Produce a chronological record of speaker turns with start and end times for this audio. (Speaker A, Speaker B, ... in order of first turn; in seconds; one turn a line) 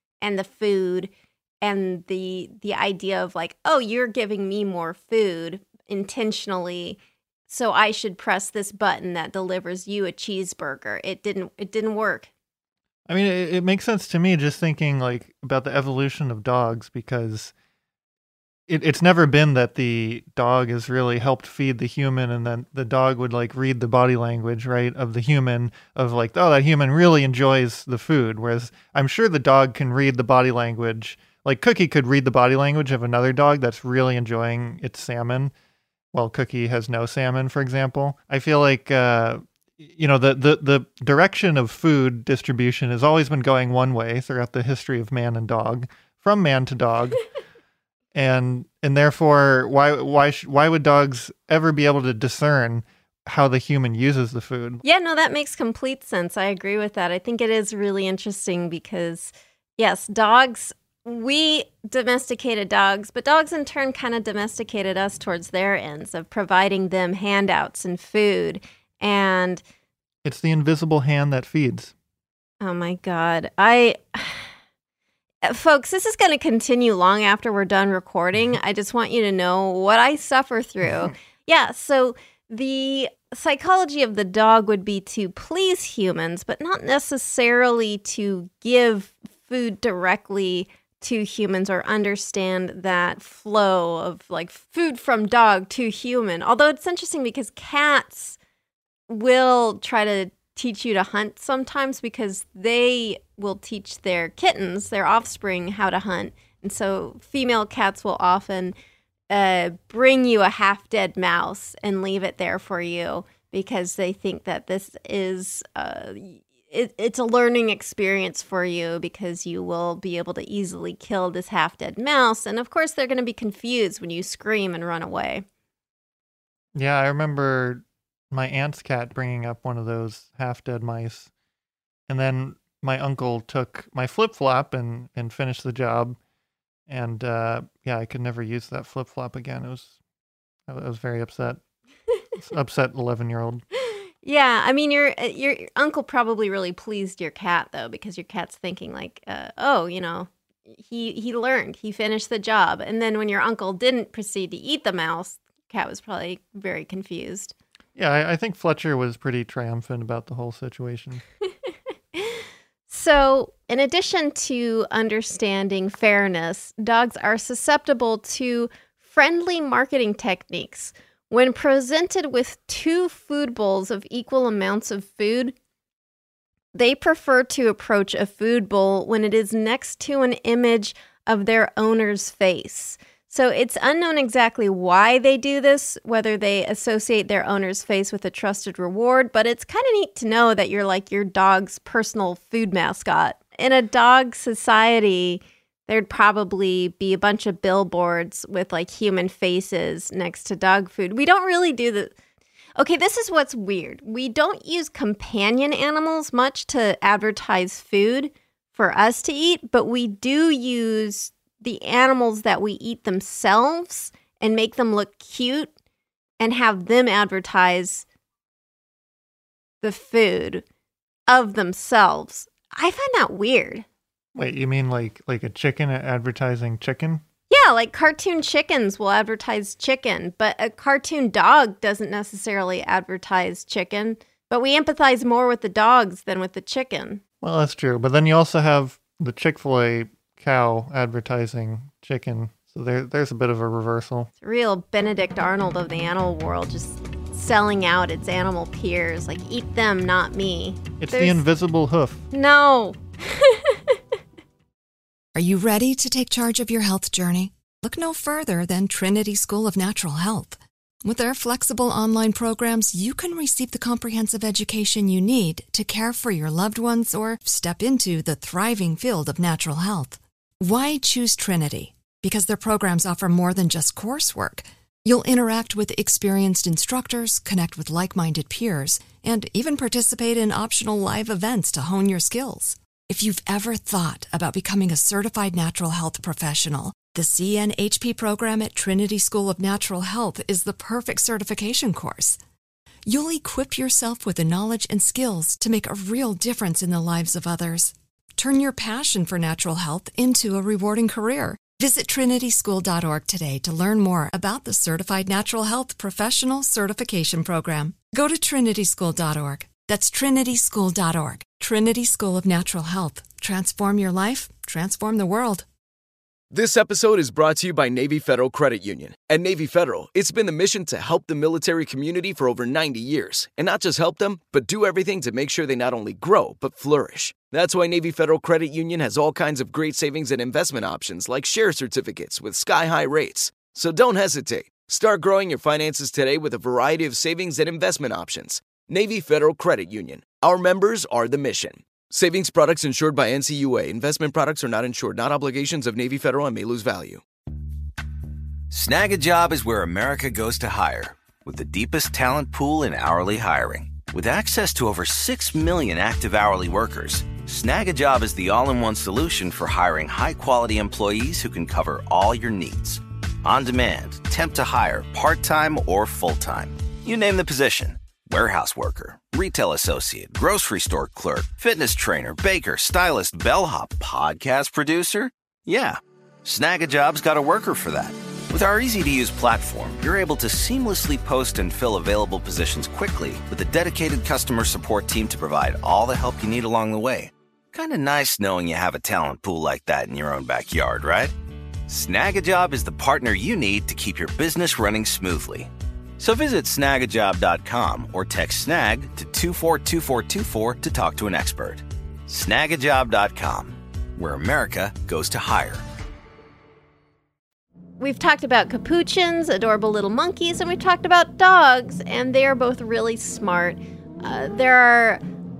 Speaker A: 0.2-12.3
Speaker B: 13.1-17.5
Speaker B: 18.7-35.5
Speaker B: 36.1-47.2
Speaker B: 48.1-54.8
Speaker A: 54.8-69.6
Speaker B: 70.2-71.9
Speaker A: 72.6-74.5
Speaker A: 75.4-98.4
Speaker A: 99.1-108.8
Speaker A: 109.3-125.5
Speaker B: 126.8-131.3
Speaker B: 132.1-136.2
Speaker B: 136.9-139.9
Speaker B: 140.7-141.6
Speaker B: 142.4-143.7
Speaker A: 144.2-157.5
Speaker B: 158.0-161.2
Speaker A: 162.2-175.5
Speaker A: 176.7-202.1
Speaker A: 202.8-215.7
Speaker A: 216.4-218.1
Speaker A: 219.8-220.6
Speaker A: 221.3-223.8
Speaker B: 224.3-227.2
Speaker A: 227.5-237.2
Speaker B: 237.4-244.3
Speaker A: 244.4-251.4
Speaker B: 251.0-252.2
Speaker A: 252.3-254.0
Speaker C: 255.3-292.4
Speaker C: 293.1-315.6
Speaker D: 316.5-347.2
Speaker E: 348.7-391.3
Speaker E: 391.9-405.8
Speaker A: 408.0-415.2